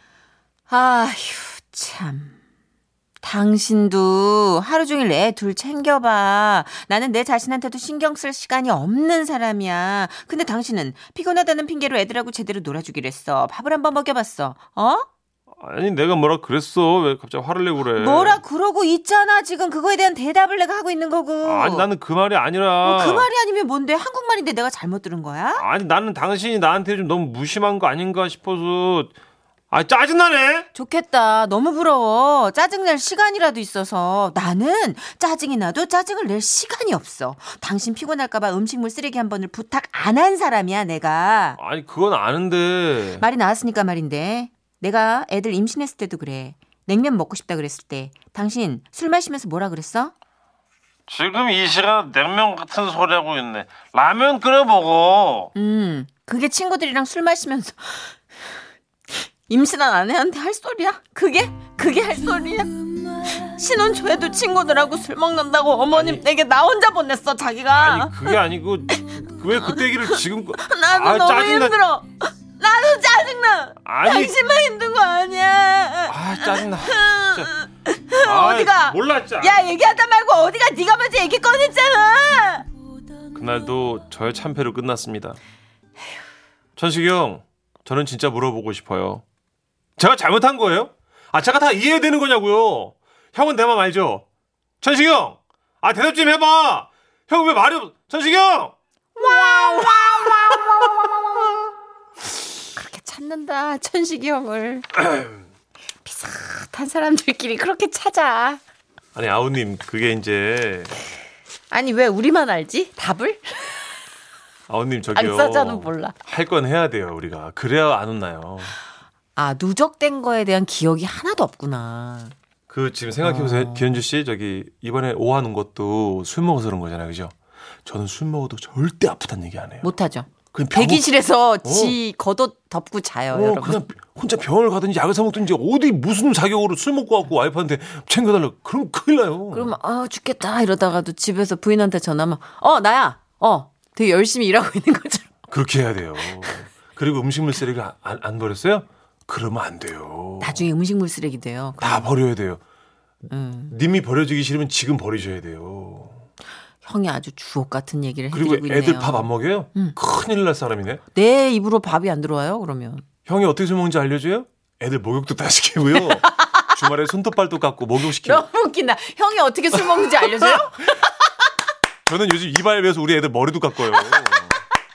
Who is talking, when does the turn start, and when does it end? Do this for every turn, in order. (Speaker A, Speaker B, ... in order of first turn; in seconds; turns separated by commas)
Speaker A: 0.7-2.4, Speaker A: 3.2-15.1, Speaker B: 15.6-18.4, Speaker A: 17.9-21.9, Speaker B: 21.4-23.3, Speaker A: 22.8-25.6, Speaker B: 25.6-29.1, Speaker B: 29.7-30.7, Speaker A: 30.7-41.6, Speaker B: 41.6-43.2, Speaker A: 43.2-50.1, Speaker B: 51.1-55.5, Speaker A: 55.5-58.2, Speaker A: 59.5-68.4, Speaker B: 65.9-66.2, Speaker B: 67.7-71.8, Speaker A: 69.6-82.7, Speaker B: 73.8-74.3, Speaker B: 76.1-77.5, Speaker B: 78.2-79.7, Speaker B: 83.3-85.4, Speaker B: 86.8-89.2, Speaker B: 90.0-94.2, Speaker B: 94.8-100.3, Speaker A: 99.2-101.1, Speaker A: 102.7-105.0, Speaker A: 106.0-108.6, Speaker B: 109.1-110.9, Speaker A: 111.7-113.8, Speaker B: 114.7-118.8, Speaker A: 115.1-116.2, Speaker A: 119.3-122.3, Speaker B: 122.7-127.3, Speaker A: 123.2-123.9, Speaker B: 127.8-129.9, Speaker A: 129.8-133.8, Speaker B: 130.5-131.1, Speaker B: 131.6-132.0, Speaker B: 133.3-139.8, Speaker A: 139.5-145.3, Speaker B: 145.5-150.7, Speaker A: 150.4-152.1, Speaker B: 151.8-152.6, Speaker A: 153.3-153.7, Speaker B: 153.7-156.2, Speaker A: 156.8-159.9, Speaker B: 158.3-161.0, Speaker A: 161.1-163.0, Speaker B: 163.2-168.4, Speaker A: 165.9-166.7, Speaker A: 168.1-171.0, Speaker B: 169.7-170.7, Speaker B: 172.1-174.6, Speaker A: 173.9-174.3